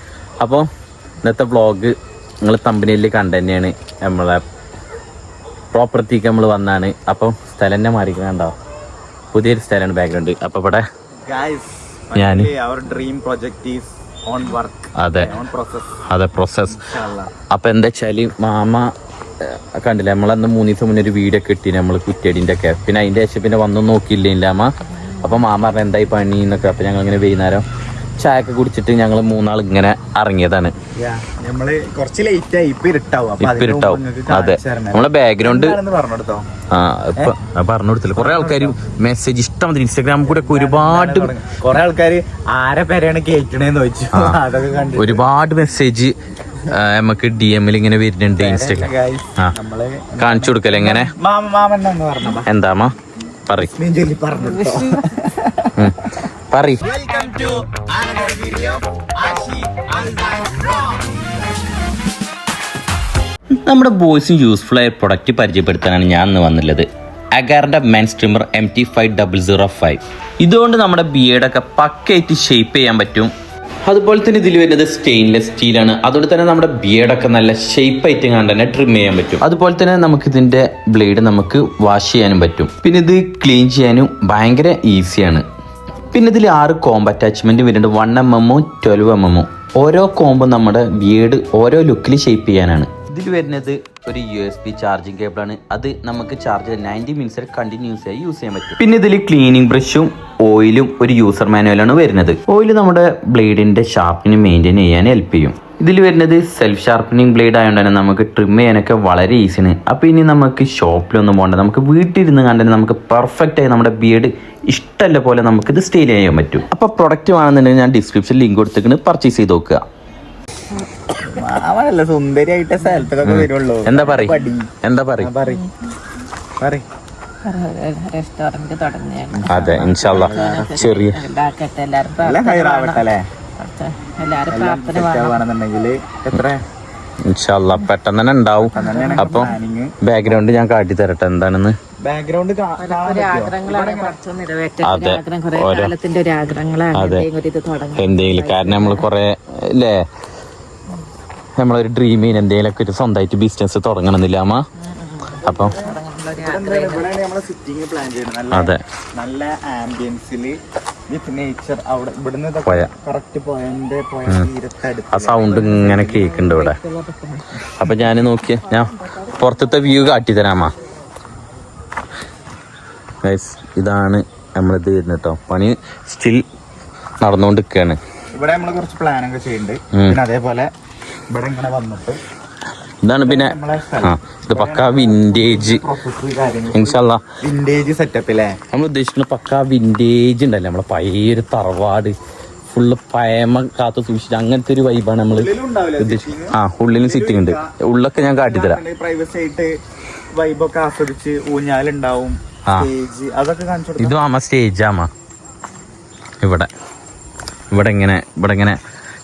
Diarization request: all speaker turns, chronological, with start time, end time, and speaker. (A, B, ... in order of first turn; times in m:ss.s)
0:00.4-0:00.7 A
0:01.2-0:04.4 A
0:05.7-0:08.5 A
0:09.3-0:10.8 A
0:11.2-0:16.0 B
0:12.1-0:12.5 A
0:15.0-0:15.4 A
0:16.1-0:16.8 A
0:16.6-0:17.3 B
0:17.5-0:18.9 A
0:19.4-0:27.6 A
0:25.1-0:25.4 C
0:28.2-0:30.7 A
0:31.0-0:36.4 B
0:33.4-0:35.8 A
0:36.7-0:41.3 A
0:38.1-0:38.8 B
0:40.2-0:45.3 B
0:44.1-0:44.4 A
0:45.0-0:46.1 A
0:46.7-0:49.5 A
0:48.4-0:52.5 B
0:50.2-0:51.1 A
0:52.4-0:52.9 A
0:53.5-0:53.7 A
0:53.6-0:55.9 B
0:54.4-0:55.1 C
0:55.8-0:56.9 A
0:56.8-1:01.3 B
1:03.6-1:13.3 A
1:13.8-1:25.4 A
1:26.1-1:59.8 A
2:01.2-2:05.7 B
2:03.2-2:05.3 A
2:05.4-2:05.7 C
2:07.4-2:13.0 C
2:09.3-2:10.8 B
2:09.5-2:11.2 A
2:12.2-2:13.2 B
2:13.6-2:15.4 C
2:14.5-2:16.6 B
2:17.3-2:19.5 A
2:18.7-2:20.4 B
2:18.7-2:19.5 C
2:20.0-2:21.7 A
2:22.0-2:24.1 B
2:22.8-2:29.0 C
2:24.8-2:25.9 A
2:26.9-2:27.3 A
2:27.9-2:30.0 A
2:31.6-2:34.6 A
2:34.8-2:37.1 C
2:35.4-2:35.7 A
2:35.7-2:40.6 B
2:38.5-2:38.8 A
2:41.1-2:46.1 B
2:42.6-2:42.9 A
2:45.1-2:46.8 A
2:45.4-2:50.0 C
2:47.8-2:50.7 A
2:53.2-2:56.4 A
2:57.2-2:58.0 A
2:58.3-3:00.7 B
2:59.9-3:00.2 A
3:01.3-3:02.2 B
3:03.0-3:05.8 A
3:03.2-3:08.6 B
3:06.7-3:07.2 A
3:08.7-3:12.2 A
3:12.7-3:18.8 A
3:15.3-3:19.7 B
3:20.4-3:24.2 B
3:24.0-3:25.1 A
3:26.4-3:26.7 A
3:27.7-3:28.8 A